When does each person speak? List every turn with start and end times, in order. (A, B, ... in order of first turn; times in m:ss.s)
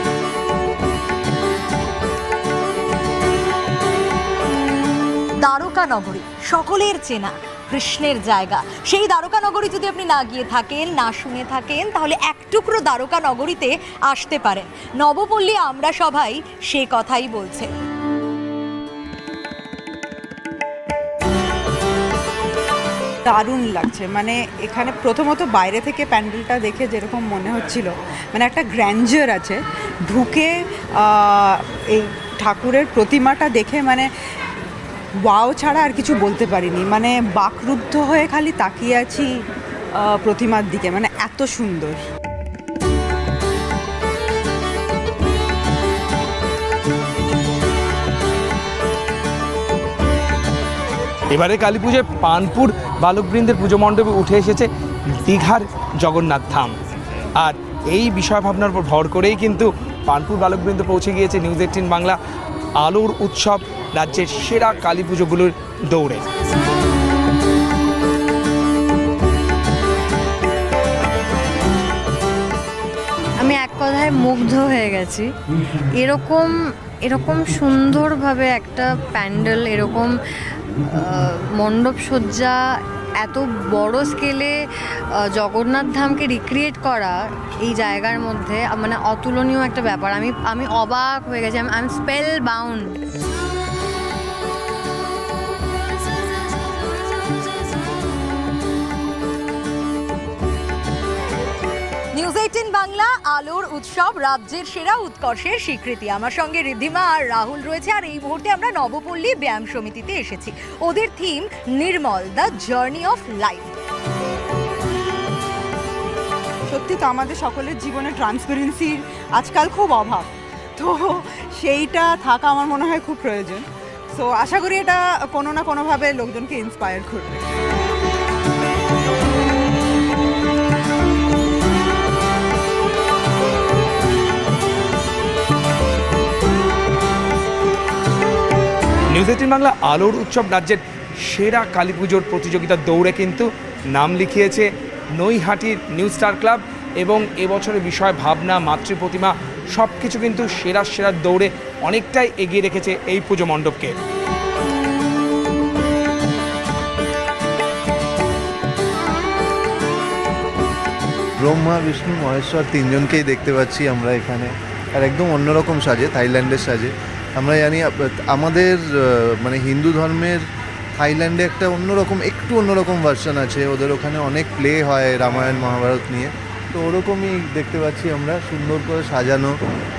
0:05.4-0:17.7 A
0:23.2-0:34.1 B
0:35.3-0:39.3 B
0:39.9-0:42.0 B
0:51.3-0:54.7 C
0:55.2-0:56.8 C
0:57.4-1:02.2 C
1:02.8-1:06.2 C
1:13.4-1:15.3 D
1:16.0-1:16.5 D
1:17.0-1:20.1 D
1:21.0-1:22.6 D
1:23.2-1:24.6 D
1:25.3-1:32.9 D
1:42.1-1:53.7 A
1:56.7-2:07.4 B
2:19.1-2:33.9 C
2:41.4-2:50.4 E
2:51.0-2:59.5 E